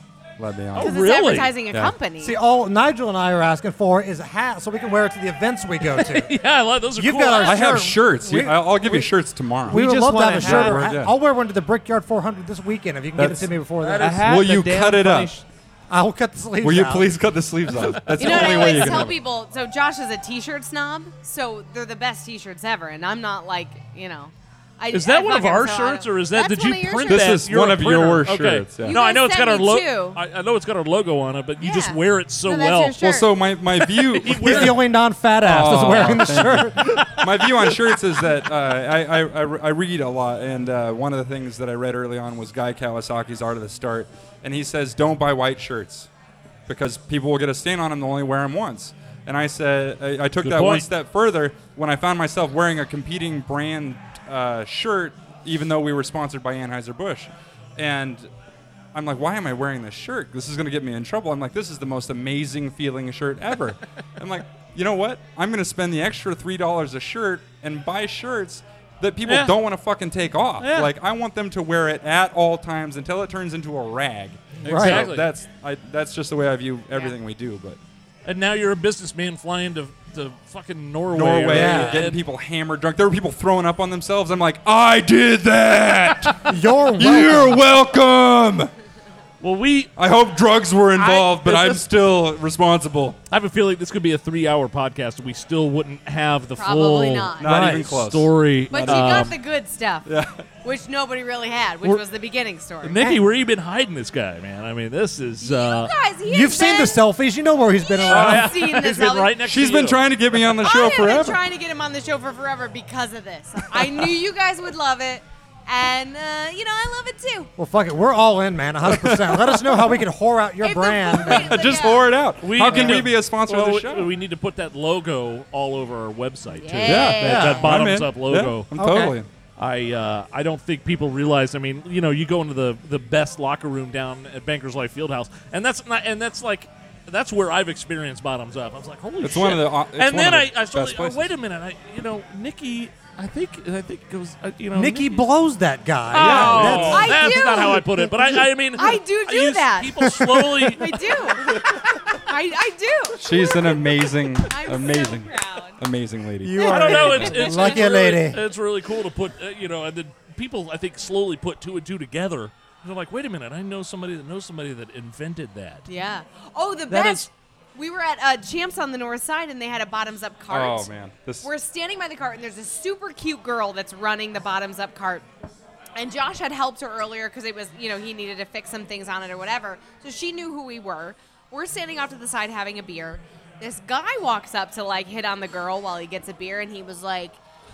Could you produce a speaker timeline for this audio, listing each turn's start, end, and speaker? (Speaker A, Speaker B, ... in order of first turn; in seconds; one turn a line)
Speaker A: 0.4-1.0
Speaker B: 0.8-1.6
Speaker C: 0.8-2.3
Speaker D: 2.2-6.4
Speaker B: 5.9-7.7
Speaker D: 7.0-9.1
Speaker A: 7.4-9.8
Speaker E: 9.7-10.9
Speaker D: 9.7-14.3
Speaker A: 10.4-11.1
Speaker A: 13.2-15.3
Speaker E: 13.8-15.4
Speaker D: 15.9-17.1
Speaker A: 16.6-19.2
Speaker B: 17.8-19.1
Speaker C: 18.2-27.4
Speaker B: 24.9-33.0
Speaker A: 27.1-29.0
Speaker C: 28.9-30.2
Speaker C: 31.6-33.3
Speaker A: 33.0-34.8
Speaker B: 33.9-34.8
Speaker D: 34.4-37.4
Speaker A: 35.4-46.1
Speaker B: 35.9-36.3
Speaker A: 46.7-58.3
Speaker B: 50.4-50.9
Speaker A: 58.9-77.8
Speaker B: 69.2-69.5
Speaker B: 70.6-70.9
Speaker B: 74.6-75.3
Speaker D: 74.7-75.1
Speaker B: 78.3-82.2
Speaker A: 81.1-88.7
Speaker D: 81.5-82.1
Speaker D: 86.5-87.6
Speaker B: 89.4-89.9
Speaker A: 90.0-93.2
Speaker C: 91.0-91.6
Speaker B: 91.1-91.8
Speaker B: 93.3-99.4
Speaker C: 96.6-97.5
Speaker A: 97.4-99.3
Speaker D: 97.4-97.9
Speaker C: 98.7-100.1
Speaker A: 100.1-100.4
Speaker C: 100.6-103.0
Speaker B: 102.8-105.9
Speaker C: 105.4-107.0
Speaker D: 106.3-108.6
Speaker C: 107.8-109.3
Speaker B: 108.0-110.0
Speaker A: 109.4-111.4
Speaker C: 110.5-117.5
Speaker D: 117.6-121.7
Speaker A: 118.9-120.0
Speaker C: 120.6-122.1
Speaker A: 121.1-124.1
Speaker B: 122.4-145.3
Speaker D: 122.6-123.0
Speaker C: 126.5-127.8
Speaker A: 126.8-129.3
Speaker D: 127.2-127.7
Speaker D: 128.8-129.2
Speaker A: 139.2-141.3
Speaker D: 144.8-147.9
Speaker B: 146.1-151.2
Speaker A: 146.1-147.1
Speaker C: 146.9-150.0
Speaker D: 150.0-150.8
Speaker C: 150.7-155.8
Speaker A: 153.2-157.4
Speaker D: 156.4-158.4
Speaker B: 156.6-165.9
Speaker C: 156.7-157.9
Speaker C: 165.9-170.9
Speaker B: 166.9-167.3
Speaker A: 170.5-171.5
Speaker C: 171.4-175.3
Speaker C: 176.0-187.4